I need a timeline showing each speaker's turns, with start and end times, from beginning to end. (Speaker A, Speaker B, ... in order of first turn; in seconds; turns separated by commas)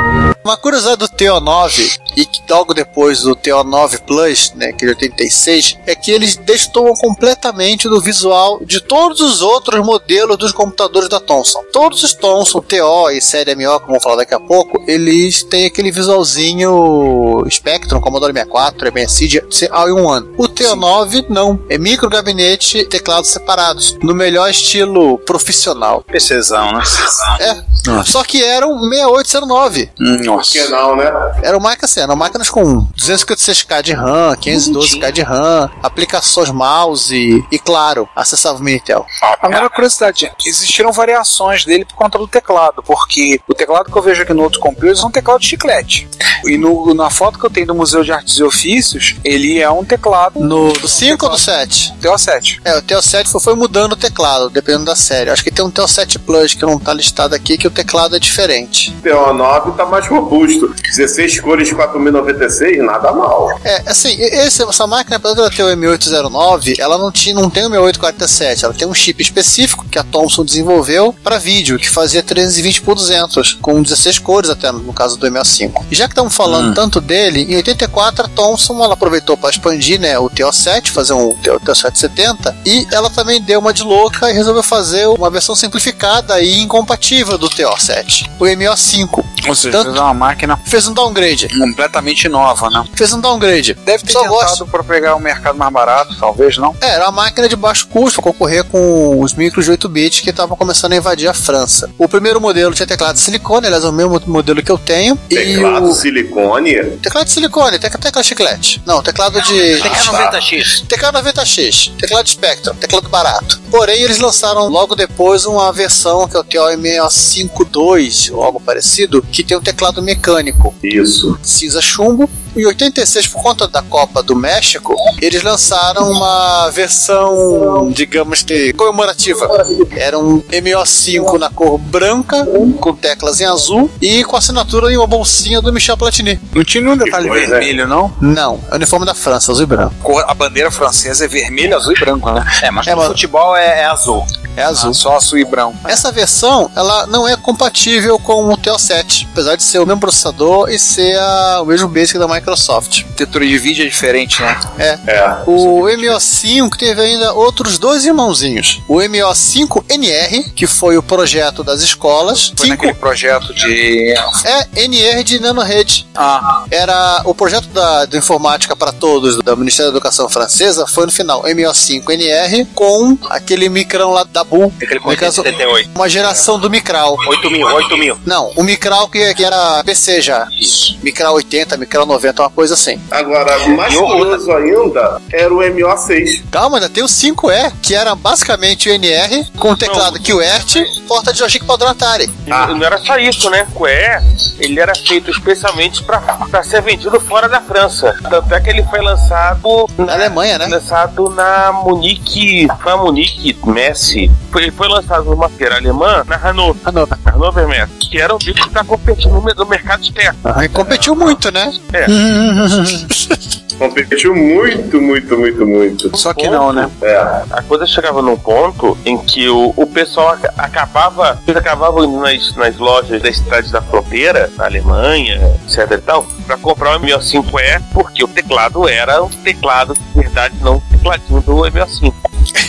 Speaker A: 0.4-26.0, Speaker B: 26.1-27.4, Speaker A: 27.4-29.9, Speaker C: 30.0-30.7, Speaker D: 30.3-31.3, Speaker A: 31.4-39.1, Speaker B: 34.5-35.1, Speaker B: 39.2-39.7, Speaker C: 39.4-51.4, Speaker A: 50.4-51.9, Speaker C: 52.0-52.6, Speaker A: 52.6-58.9, Speaker D: 59.0-63.6, Speaker A: 63.6-90.0, Speaker C: 76.5-76.8, Speaker C: 89.4-90.6, Speaker A: 90.6-91.5, Speaker C: 91.5-92.9, Speaker A: 93.0-94.6, Speaker C: 93.8-96.8, Speaker A: 96.8-106.0, Speaker D: 105.3-107.0, Speaker A: 107.0-120.7, Speaker B: 109.8-110.8, Speaker D: 109.9-110.3, Speaker D: 120.8-121.4, Speaker A: 121.4-136.4, Speaker C: 136.5-138.2, Speaker D: 137.0-137.7, Speaker A: 138.2-139.9, Speaker C: 140.0-142.5, Speaker B: 142.6-144.2, Speaker A: 142.8-143.2, Speaker A: 144.6-145.0, Speaker C: 144.7-146.0, Speaker A: 145.8-153.1, Speaker C: 153.2-154.6, Speaker A: 154.8-162.9, Speaker D: 155.1-155.5, Speaker C: 155.6-156.2, Speaker C: 162.5-164.4, Speaker A: 164.4-166.1, Speaker C: 166.2-166.6, Speaker A: 166.7-177.2, Speaker B: 174.8-175.9, Speaker B: 177.2-178.2, Speaker A: 178.2-183.0, Speaker D: 183.1-186.4, Speaker B: 183.8-184.4, Speaker A: 186.5-192.4, Speaker E: 189.8-190.5, Speaker E: 192.4-211.3, Speaker A: 200.1-200.7, Speaker A: 206.8-207.2, Speaker A: 210.4-213.3, Speaker E: 211.9-212.2, Speaker D: 213.8-217.4, Speaker C: 216.1-216.9, Speaker E: 217.5-232.2